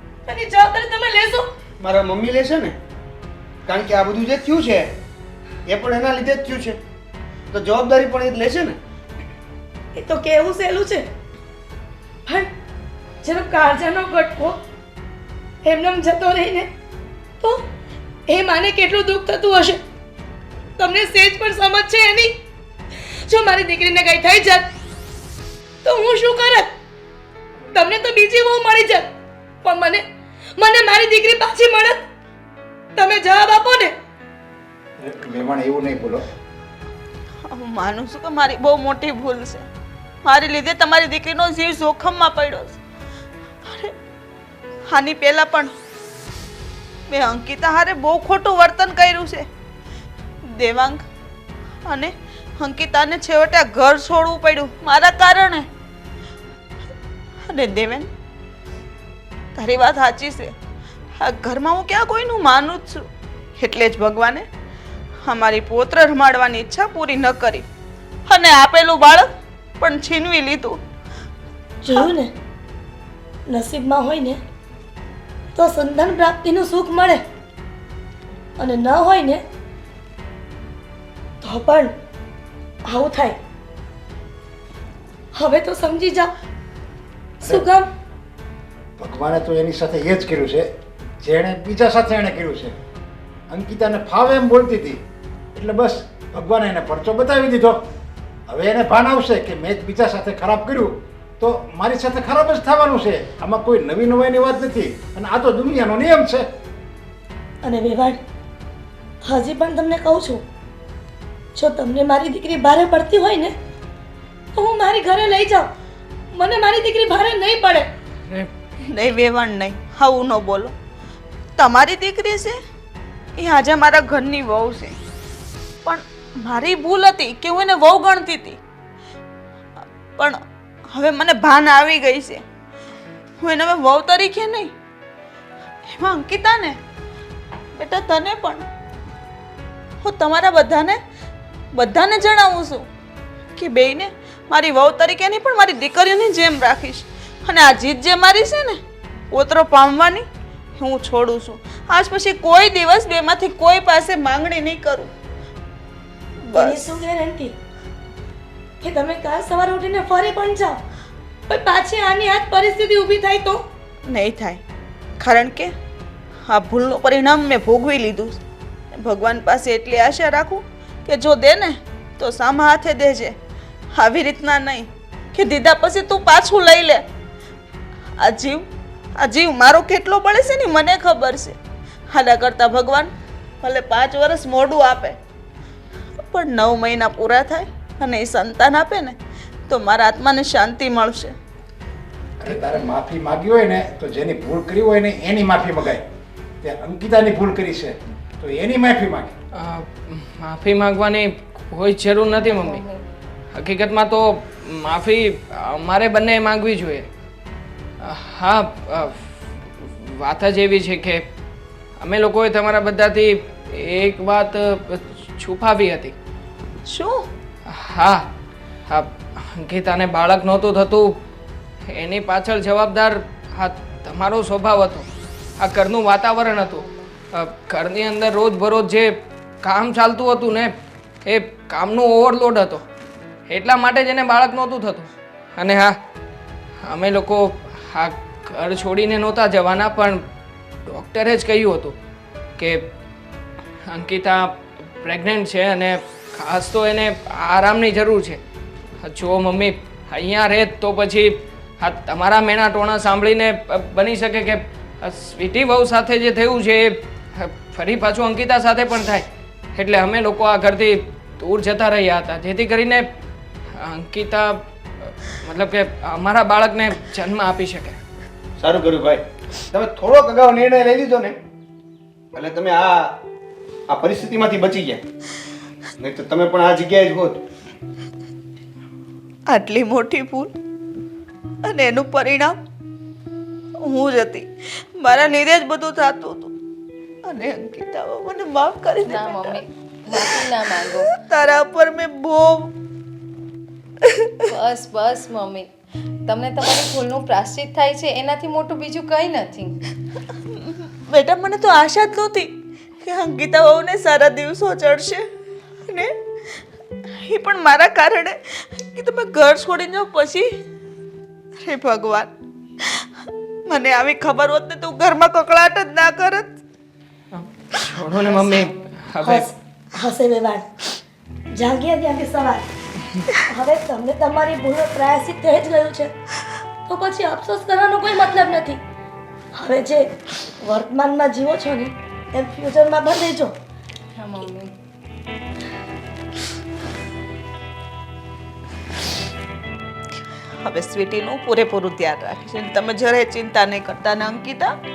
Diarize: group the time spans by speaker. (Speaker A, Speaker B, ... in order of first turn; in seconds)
Speaker A: 0.3-1.5, 9.9-11.1, 13.2-14.6, 15.6-16.7, 17.4-17.6, 18.3-19.8, 20.8-22.4, 23.2-24.7, 25.8-26.7, 27.7-29.1, 29.6-30.1, 30.6-32.1, 33.0-33.9, 71.8-72.3, 73.5-74.4, 75.5-77.2, 78.6-79.4, 81.4-81.9, 82.9-83.4, 85.3-86.3, 87.4-87.9, 107.6-108.2, 109.2-110.4, 111.5-113.5, 114.5-115.7, 116.3-117.9, 156.5-157.6, 158.8-160.8, 161.5-163.7, 319.2-320.7, 321.5-322.7, 323.5-326.1, 326.9-328.8, 329.5-333.6
Speaker B: 1.8-2.8, 3.7-4.9, 5.7-6.8, 7.5-8.8, 268.6-271.4, 272.3-273.1, 273.9-275.0, 276.0-277.4
Speaker C: 35.0-36.2, 87.4-87.7, 89.0-90.7, 91.2-92.8, 93.5-95.0, 95.5-97.8, 98.5-106.5, 192.4-196.1, 196.6-199.4
Speaker D: 37.4-39.7, 40.2-42.8, 43.6-43.9, 44.9-45.7, 47.1-49.5, 50.5-51.0, 51.9-55.7, 57.5-58.1, 59.5-60.5, 61.2-64.5, 65.2-67.7, 68.3-70.8, 118.8-120.7, 121.6-122.6, 123.4-125.0, 125.8-128.6, 130.9-132.4, 133.4-134.7, 135.9-136.8, 137.8-138.7, 140.0-141.0, 141.7-142.9, 143.6-148.8, 149.3-155.1, 156.5-156.9, 164.1-164.6, 165.2-165.7, 166.5-168.4, 168.9-173.4, 173.9-177.0, 178.2-178.7, 179.2-181.6, 182.1-185.2, 186.2-189.2, 189.7-191.3, 216.9-217.3, 279.5-280.5, 281.6-282.6, 283.8-286.5, 287.2-289.6, 290.1-290.4, 290.9-292.7, 294.0-294.3, 301.1-305.3, 305.9-306.1, 307.2-310.5, 311.6-313.1, 313.7-316.6, 340.6-344.7
Speaker E: 199.5-202.8, 203.5-207.1, 208.0-211.2, 212.0-216.2, 217.7-218.3, 218.9-221.2, 221.9-225.1, 225.6-230.7, 231.2-232.8, 233.5-236.0, 236.8-240.2, 240.9-242.0, 242.6-242.8, 243.9-248.4, 249.0-263.1, 263.7-268.0, 317.3-319.5
Speaker F: 202.4-203.0, 289.1-291.1, 294.5-295.7, 296.3-299.8, 334.2-334.7